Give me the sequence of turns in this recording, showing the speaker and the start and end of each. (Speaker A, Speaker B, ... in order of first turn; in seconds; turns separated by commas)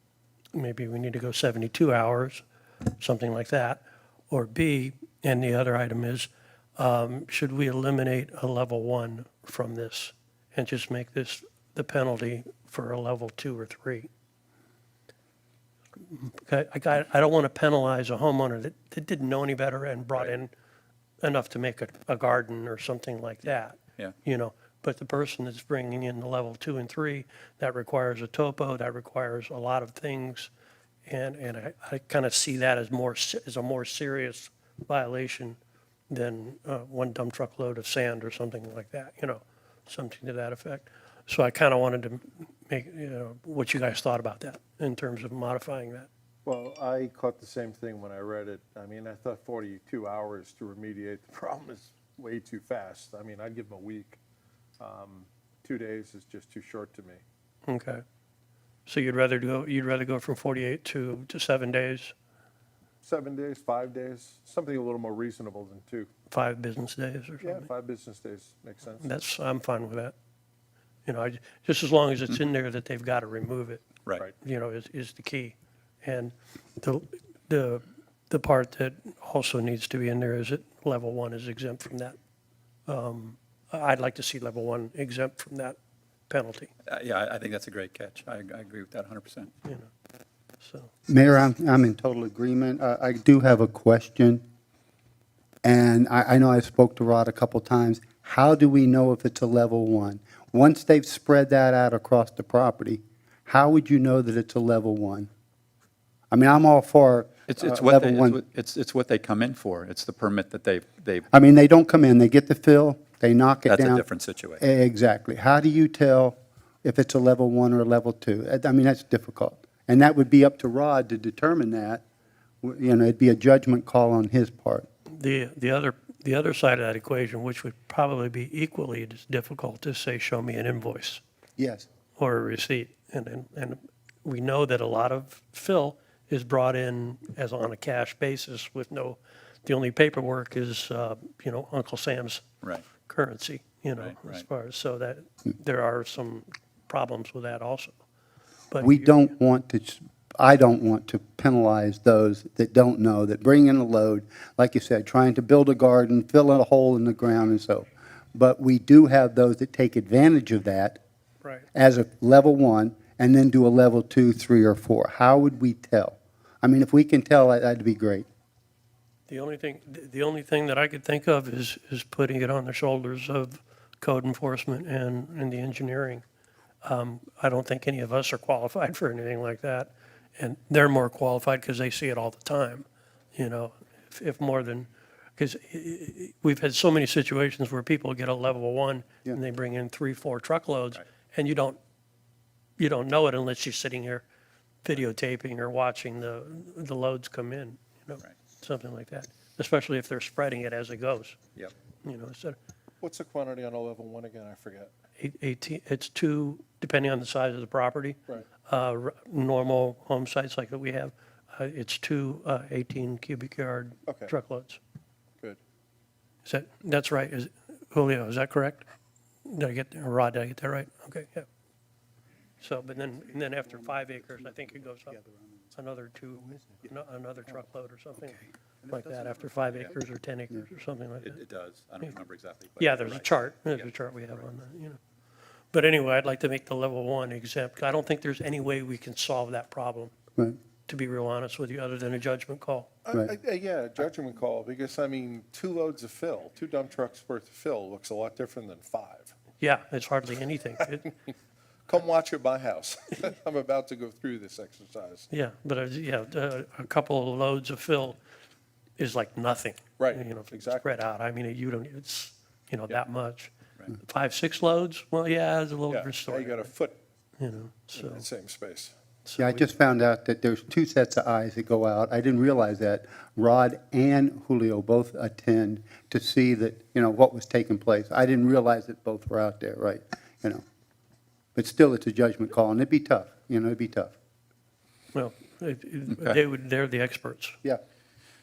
Speaker A: 0.5-2.4, Speaker A: 3.0-14.1, Speaker A: 16.1-20.5, Speaker A: 21.2-30.5, Speaker A: 31.1-35.6, Speaker A: 36.1-46.1, Speaker B: 46.5-54.2, Speaker B: 54.8-57.2, Speaker A: 57.7-58.0, Speaker A: 58.9-62.1, Speaker B: 63.0-66.1, Speaker A: 66.3-67.6, Speaker B: 67.4-69.1, Speaker A: 69.0-70.1, Speaker A: 71.0-73.8, Speaker A: 74.4-82.2, Speaker A: 82.9-85.8, Speaker A: 86.3-86.7, Speaker C: 86.8-89.5, Speaker A: 89.6-89.9, Speaker A: 90.6-90.9, Speaker D: 91.1-94.4, Speaker D: 95.6-105.3, Speaker D: 106.3-108.4, Speaker C: 107.5-111.3, Speaker D: 111.3-114.0, Speaker C: 113.7-114.6, Speaker D: 114.6-122.0, Speaker D: 122.6-124.8, Speaker A: 125.1-131.2, Speaker D: 131.6-131.8, Speaker A: 132.2-147.9, Speaker C: 144.0-144.4, Speaker A: 148.7-149.3, Speaker D: 148.8-161.0, Speaker D: 161.7-168.3, Speaker A: 169.3-176.2, Speaker A: 176.8-191.8, Speaker A: 192.8-194.2, Speaker A: 194.8-201.4, Speaker A: 202.0-202.6, Speaker B: 203.0-204.9, Speaker A: 205.2-214.8, Speaker B: 214.1-214.3, Speaker A: 216.4-218.8, Speaker A: 219.4-221.5, Speaker A: 222.6-225.2, Speaker D: 223.6-225.7, Speaker A: 225.7-231.4, Speaker D: 226.5-226.8, Speaker D: 228.3-229.4, Speaker C: 231.2-233.8, Speaker A: 232.8-235.0, Speaker A: 235.7-240.1, Speaker A: 240.9-242.9, Speaker B: 243.1-249.3, Speaker A: 249.6-251.1, Speaker B: 251.9-255.3, Speaker A: 255.3-258.2, Speaker A: 259.0-266.7, Speaker B: 260.0-260.9, Speaker B: 265.9-267.0, Speaker A: 267.4-268.2, Speaker B: 267.9-268.9, Speaker A: 269.2-269.6, Speaker D: 269.4-280.6, Speaker D: 281.5-284.1, Speaker A: 285.1-287.6, Speaker C: 286.1-286.4